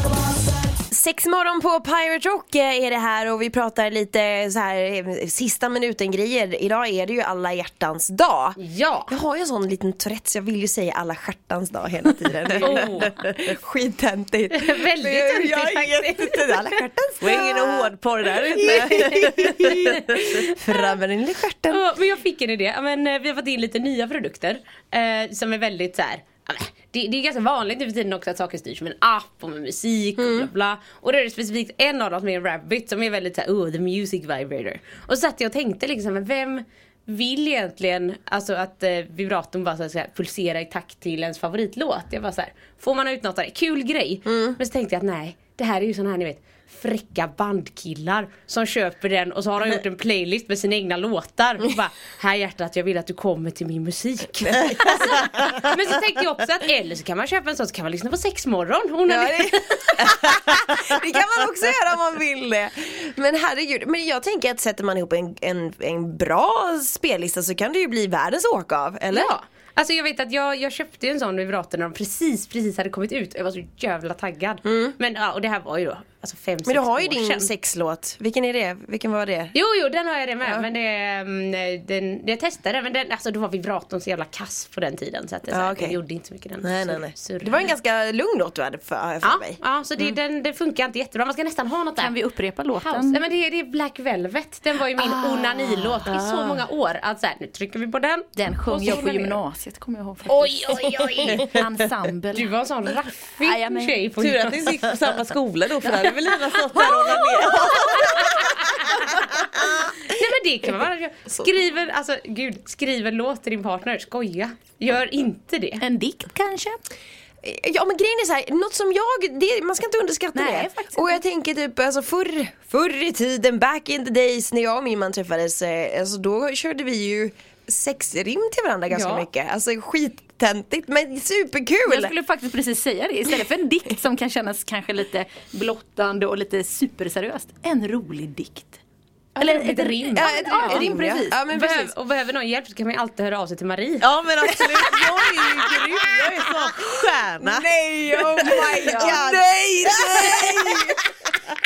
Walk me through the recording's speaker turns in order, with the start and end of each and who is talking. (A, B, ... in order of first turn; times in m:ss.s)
0:00.9-0:17.9 A
0:08.6-0:09.2 B
0:12.5-0:12.8 C
0:12.6-0:13.1 B
0:14.5-0:16.7 B
0:17.2-0:20.3 C
0:18.5-0:21.8 A
0:20.2-0:20.5 B
0:21.7-1:00.1 B
0:30.2-0:30.5 A
0:44.3-0:44.6 A
0:59.1-1:09.3 A
1:09.1-1:17.5 B
1:14.6-1:15.0 A
1:16.6-1:19.6 A
1:19.5-1:27.7 B
1:20.4-1:20.7 A
1:25.5-1:26.0 A
1:26.6-1:30.1 A
1:29.2-1:32.2 B
1:32.0-1:33.2 D
1:32.7-1:39.4 B
1:35.0-1:36.1 D
1:36.1-1:36.6 C
1:38.4-1:42.5 D
1:40.3-1:41.4 B
1:42.3-1:44.5 B
1:43.4-1:45.2 D
1:44.2-1:49.7 C
1:45.8-1:48.0 D
1:48.0-1:55.8 B
1:55.8-1:56.8 D
1:57.4-2:12.2 A
2:00.3-2:01.2 D
2:08.9-2:09.3 B
2:11.8-2:18.8 D
2:19.4-2:20.9 B
2:19.4-2:21.4 D
2:20.1-2:21.9 A
2:21.5-2:24.1 B
2:24.0-2:31.0 C
2:24.6-2:26.9 A
2:27.4-2:31.0 A
2:28.4-2:29.3 D